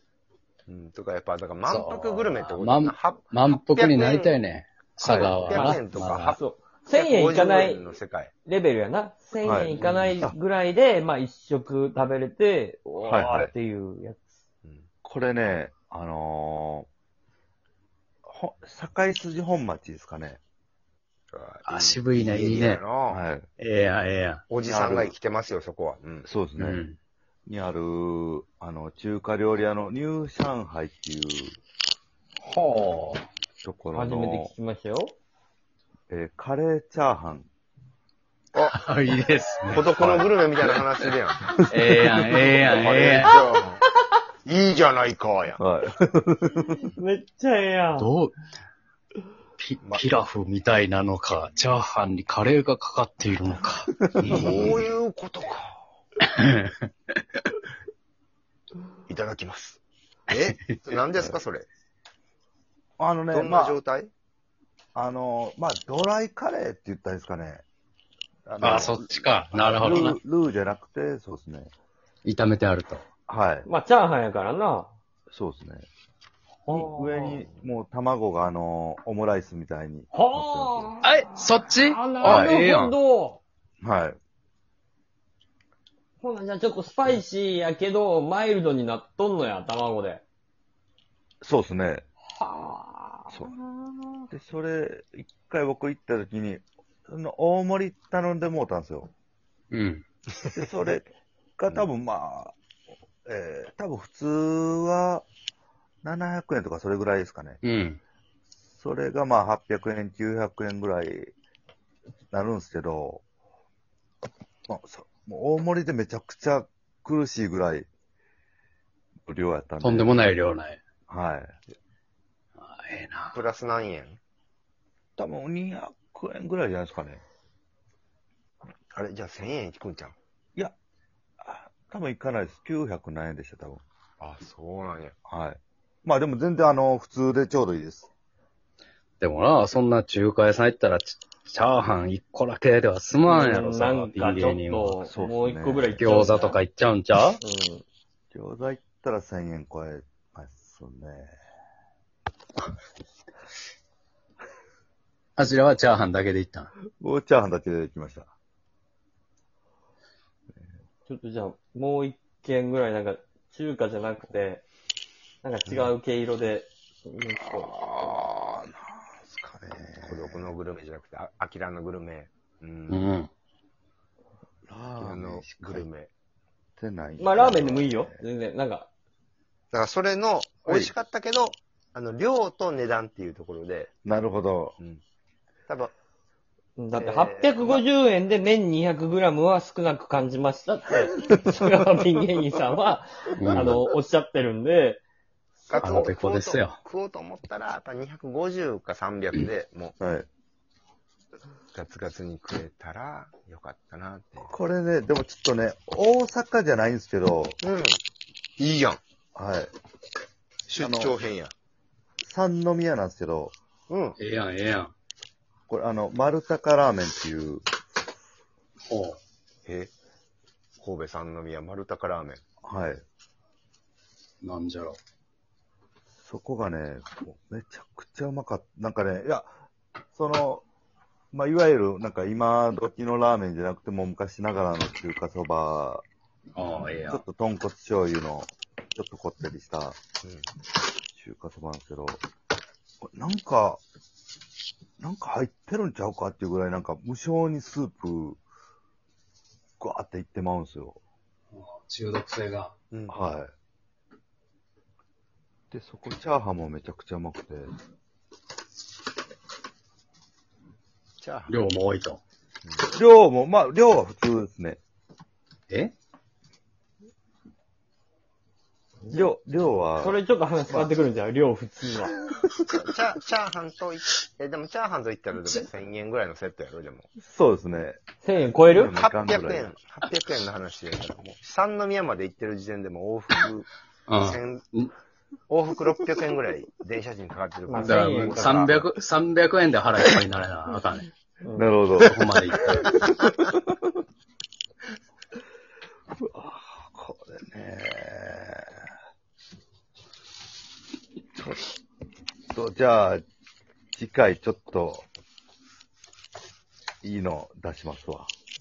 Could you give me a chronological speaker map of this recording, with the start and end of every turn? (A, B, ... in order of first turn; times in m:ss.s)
0:00.7-0:04.4 A
0:01.6-0:06.4 B
0:05.0-0:08.3 A
0:05.0-0:05.4 C
0:06.3-0:07.9 D
0:08.4-0:14.3 D
0:09.4-0:10.4 C
0:09.8-0:10.2 B
0:13.1-0:13.5 C
0:15.0-0:16.9 C
0:18.3-0:20.4 C
0:21.3-0:23.2 A
0:21.6-0:22.8 B
0:23.1-0:23.5 C
0:23.6-0:24.4 B
0:24.5-0:26.3 A
0:24.7-0:25.1 C
0:26.2-0:26.8 C
0:26.6-0:27.0 B
0:27.5-0:31.6 C
0:32.4-0:33.2 B
0:33.6-0:34.5 C
0:33.9-0:35.2 D
0:36.1-0:37.5 C
0:38.7-0:43.4 B
0:39.7-0:41.5 A
0:41.7-0:42.2 C
0:42.6-0:43.8 A
0:44.4-0:45.6 A
0:45.6-0:46.8 C
0:46.8-0:48.1 D
0:48.0-0:48.4 B
0:49.6-0:54.8 B
0:54.0-0:54.5 C
0:54.3-0:55.8 A
0:56.2-0:57.1 B
0:59.1-1:01.7 A
1:03.0-1:03.8 C
1:03.3-1:04.1 A
1:05.0-1:07.6 C
1:08.5-1:11.7 C
1:08.6-1:10.2 B
1:12.2-1:13.0 B
1:13.3-1:13.7 C
1:13.7-1:14.9 D
1:15.3-1:15.9 C
1:16.7-1:17.4 D
1:16.7-1:20.9 C
1:20.1-1:21.2 D
1:21.0-1:23.0 B
1:21.7-1:23.4 D
1:23.8-1:24.2 C
1:26.2-1:30.2 D
1:31.4-1:32.1 C
1:32.4-1:34.3 D
1:34.3-1:39.1 C
1:39.7-1:40.0 B
1:40.5-1:42.6 C
1:43.2-1:45.2 C
1:46.0-1:47.6 C
1:47.6-1:48.0 B
1:48.8-1:51.3 C
1:52.3-1:53.2 C
1:54.7-1:57.9 C
1:59.3-2:00.2 C
1:59.8-2:00.8 B
2:01.1-2:01.6 C
2:02.6-2:03.4 B
2:03.3-2:04.2 A
2:05.2-2:07.2 C
2:08.9-2:10.2 A
2:11.4-2:13.8 C
2:14.2-2:15.2 A
2:15.3-2:18.1 C
2:19.2-2:25.0 B
2:23.2-2:26.6 D
2:25.0-2:26.1 C
2:26.0-2:27.4 B
2:27.4-2:27.8 D
2:28.3-2:31.3 C
2:35.4-2:36.7 B
2:37.0-2:38.3 C
2:41.1-2:44.6 D
2:45.4-2:48.1 D
2:45.7-2:45.9 A
2:47.4-2:50.5 C
2:50.0-2:53.1 A
2:52.9-2:53.3 B
2:54.7-2:55.8 C
2:55.0-2:56.1 A
2:56.8-2:58.2 C
2:57.2-2:58.9 D
2:59.7-3:03.9 A
3:04.0-3:04.8 C
3:05.7-3:05.9 A
3:06.8-3:15.0 D
3:07.0-3:07.8 A
3:13.4-3:13.8 B
3:15.7-3:16.1 D
3:15.7-3:20.0 A
3:15.8-3:16.8 B
3:20.0-3:20.3 C
3:21.7-3:24.5 A
3:24.5-3:27.6 C
3:27.6-3:28.0 A
3:28.6-3:29.0 A
3:29.4-3:29.7 C
3:30.7-3:31.5 A
3:30.8-3:31.2 C
3:32.2-3:33.5 C
3:33.9-3:34.2 A
3:34.2-3:34.9 B
3:35.7-3:37.6 C
3:38.9-3:39.2 B
3:39.7-3:39.9 A
3:40.8-3:42.4 A
3:42.6-3:43.0 C
3:44.4-3:45.0 B
3:46.2-3:49.6 C
3:50.1-3:50.6 C
3:51.3-3:56.0 C
3:56.6-3:57.2 B
3:56.8-4:00.0 C
4:01.2-4:02.2 C
4:03.0-4:03.8 C
4:05.0-4:08.4 C
4:09.8-4:11.0 C
4:11.5-4:12.8 B
4:12.9-4:13.2 A
4:13.1-4:13.5 C
4:15.7-4:17.7 C
4:21.2-4:21.6 A
4:21.5-4:22.2 B
4:22.9-4:24.8 C
4:29.1-4:30.2 C
4:30.0-4:32.2 D
4:32.7-4:37.1 A
4:37.2-4:38.0 C
4:38.2-4:38.9 D
4:38.6-4:39.8 C
4:38.9-4:43.7 A
4:44.1-4:44.9 B
4:44.2-4:44.6 A
4:45.5-4:48.9 A
4:47.7-4:48.6 D
4:47.8-4:51.1 B
4:51.4-4:51.7 D
4:51.6-4:52.2 C
4:52.0-4:53.0 B
4:52.8-4:53.9 C
4:56.2-4:58.8 C
5:01.4-5:01.7 C
5:02.5-5:03.2 C
5:04.0-5:05.1 C
5:07.0-5:08.3 C